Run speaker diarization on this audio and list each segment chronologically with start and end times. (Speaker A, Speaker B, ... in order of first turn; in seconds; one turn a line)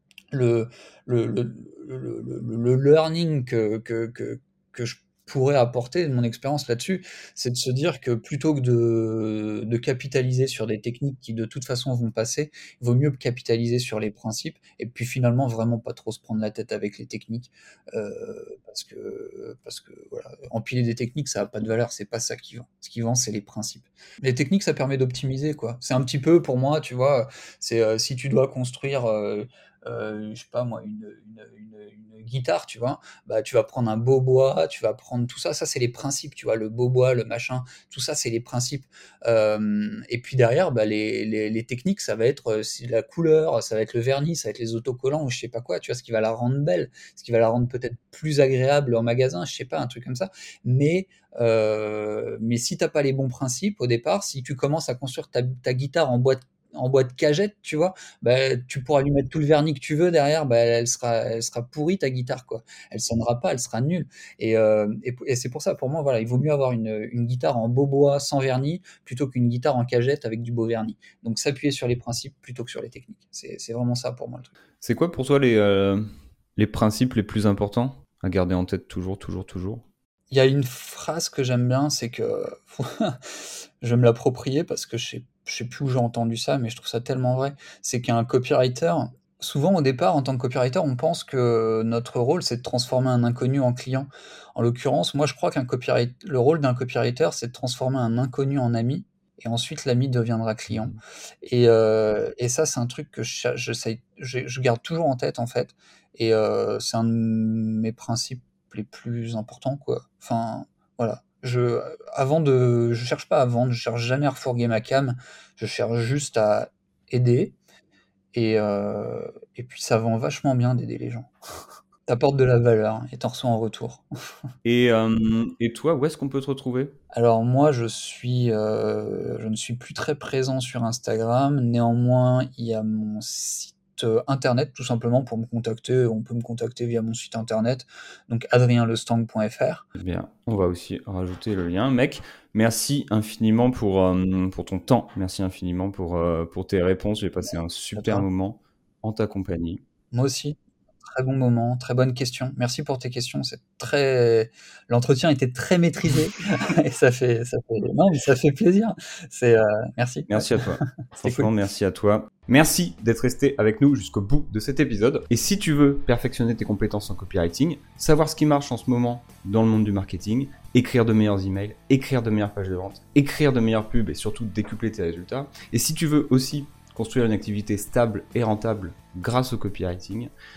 Speaker A: 0.3-74.5
Speaker B: 74.8-76.0
Speaker B: 76.6-79.8
Speaker A: 80.3-83.2
Speaker A: 83.8-117.5
Speaker A: 118.3-121.3
Speaker A: 122.1-124.0
Speaker B: 124.6-127.0
Speaker A: 127.1-139.9
Speaker B: 140.0-149.8
Speaker A: 147.9-148.3
Speaker A: 150.1-161.5
Speaker B: 160.3-180.3